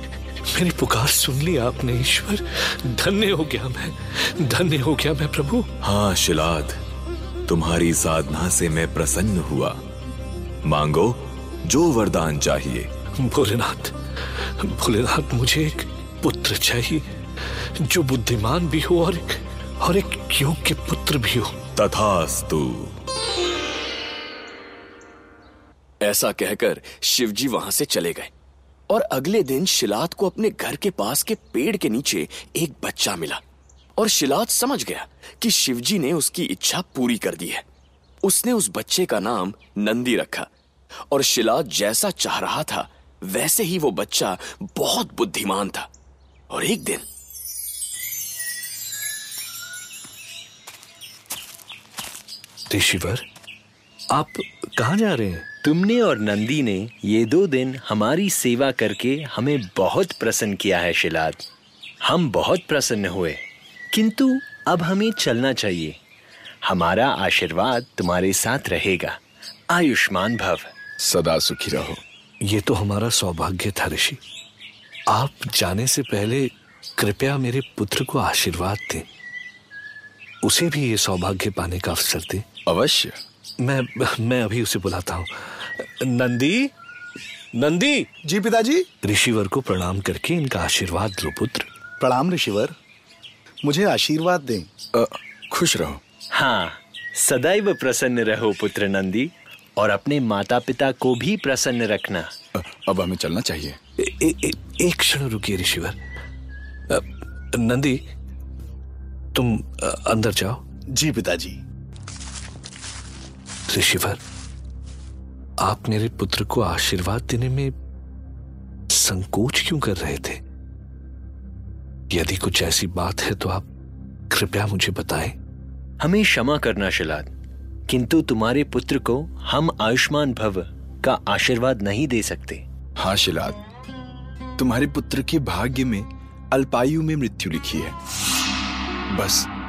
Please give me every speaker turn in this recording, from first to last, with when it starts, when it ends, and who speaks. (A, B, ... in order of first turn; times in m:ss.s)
0:00.5-0:05.7 A
0:05.8-0:06.8 B
0:07.5-0:09.8 B
0:10.6-0:12.9 B
0:13.2-0:14.0 A
0:14.6-0:17.0 A
0:17.9-0:21.6 A
0:21.8-0:22.9 B
0:26.0-0:28.3 C
0:28.9-0:33.4 C
0:34.0-0:37.6 C
0:38.2-0:40.5 C
0:41.1-0:45.9 C
0:46.5-0:47.1 C
0:52.7-0:53.2 A
0:54.1-0:55.5 A
0:55.6-1:01.4 D
1:02.0-1:06.0 D
1:06.6-1:09.2 D
1:09.7-1:10.7 D
1:11.0-1:12.0 E
1:12.4-1:14.2 A
1:15.1-1:19.1 A
1:20.4-1:22.4 A
1:22.7-1:23.2 E
1:23.6-1:26.7 A
1:27.5-1:28.1 A
1:28.2-1:28.9 F
1:29.0-1:31.7 A
1:32.0-1:32.7 F
1:33.6-1:34.7 F
1:34.9-1:36.0 E
1:36.3-1:42.3 D
1:42.5-1:43.8 E
1:44.0-1:46.0 A
1:46.9-1:48.0 A
1:49.3-1:50.6 A
1:50.9-1:51.6 F
1:53.7-1:54.2 A
1:55.6-1:57.7 A
1:58.9-2:00.4 A
2:02.1-2:03.7 A
2:04.3-2:05.4 A
2:06.0-2:07.3 D
2:07.9-2:12.6 D
2:13.0-2:13.6 E
2:14.6-2:18.0 E
2:19.1-2:19.5 E